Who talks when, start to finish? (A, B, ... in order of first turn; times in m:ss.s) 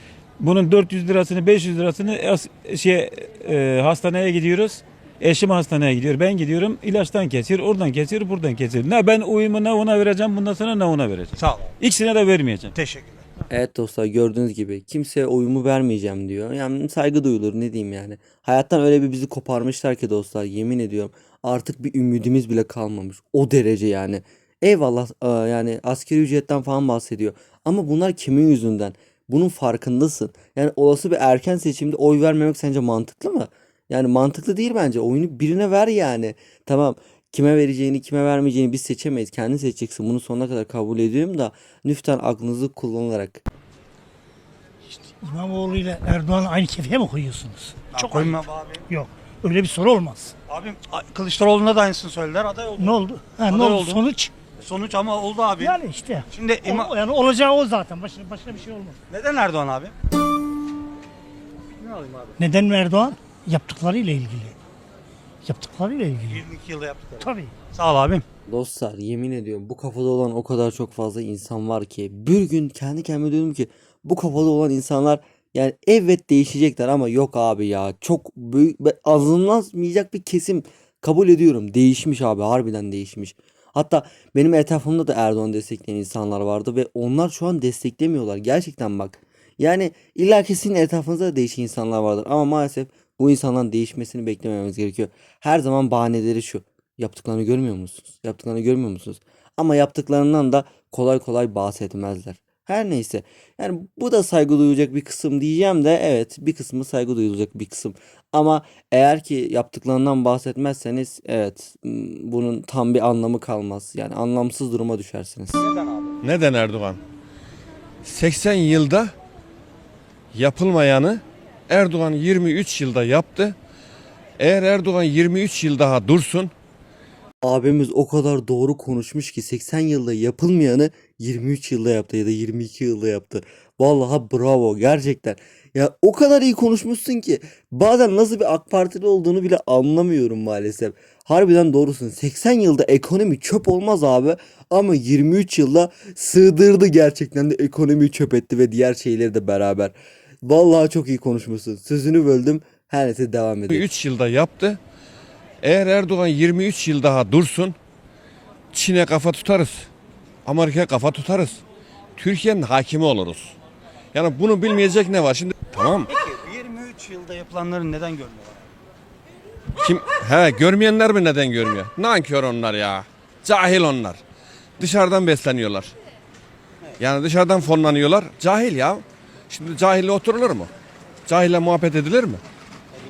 0:00.4-0:12.8 A
0:11.4-0:11.7 B
0:12.7-0:13.2 B
0:13.5-0:43.4 C
0:44.9-0:50.3 D
0:47.9-0:48.8 B
0:50.5-0:54.0 B
0:52.8-0:54.3 D
0:54.6-0:56.9 B
0:55.6-0:59.0 D
0:59.1-0:59.9 B
1:01.8-1:02.3 B
1:02.4-1:04.5 D
1:05.4-1:06.4 D
1:06.3-1:08.2 B
1:07.2-1:07.5 D
1:08.5-1:55.6 C
1:56.2-1:57.0 E
1:58.0-1:59.1 E
2:00.3-2:03.6 E
2:04.4-2:06.5 E
2:07.4-2:33.9 C
2:33.7-2:34.8 E
2:35.6-2:37.8 E
2:38.7-2:39.9 E
2:40.4-2:41.6 E
2:42.2-2:43.5 E
2:44.1-2:46.1 E
2:46.1-2:48.7 B
2:49.8-2:54.2 E
2:54.8-2:55.9 E
2:57.0-3:00.7 E
3:01.2-3:02.4 E